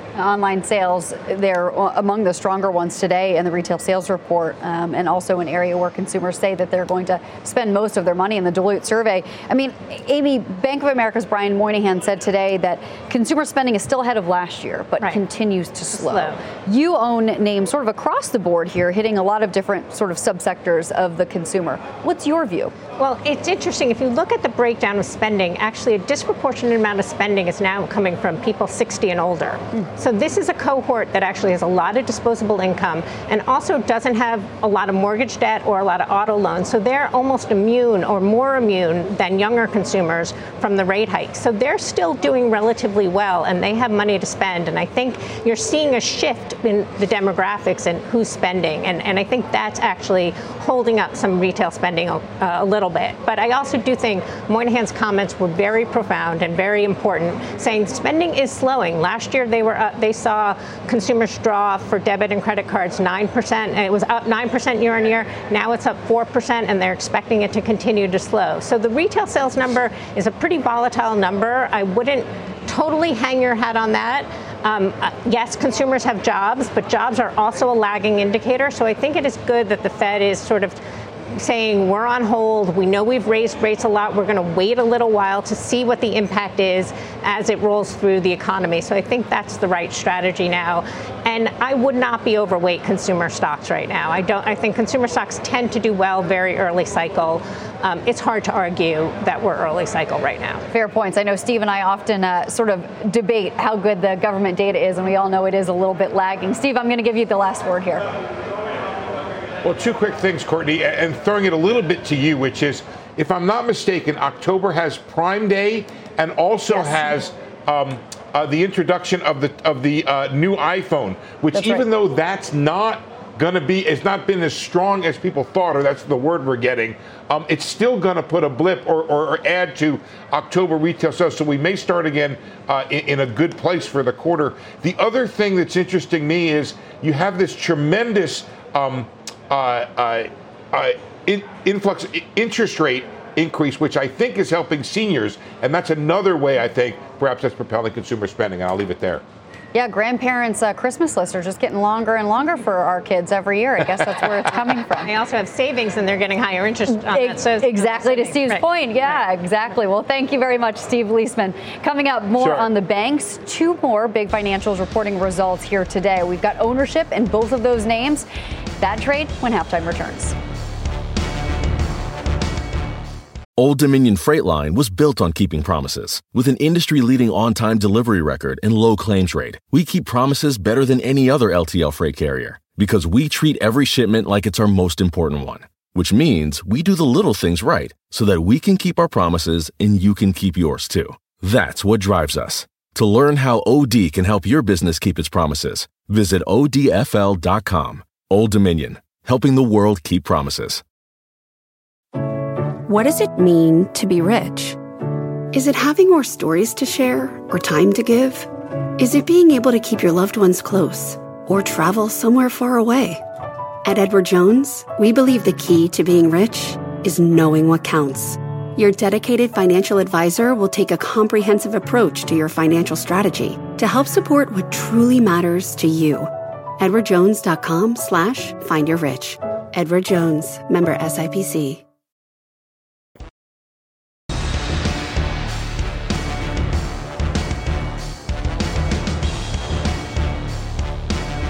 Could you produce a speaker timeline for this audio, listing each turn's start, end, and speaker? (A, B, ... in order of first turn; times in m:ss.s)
0:00.2-0:22.7 A
0:15.9-0:16.4 B
0:23.0-1:20.8 B
1:21.3-1:40.6 B
1:40.7-1:48.0 A
1:49.6-2:29.2 C
2:01.5-2:01.8 A
2:29.7-2:35.1 A
2:35.0-2:39.2 B
2:36.9-2:48.3 A
2:42.4-2:42.7 C
2:48.8-2:50.3 A
2:53.6-3:20.8 D
3:22.8-3:24.8 E
3:25.5-3:33.2 E
3:33.8-3:51.8 E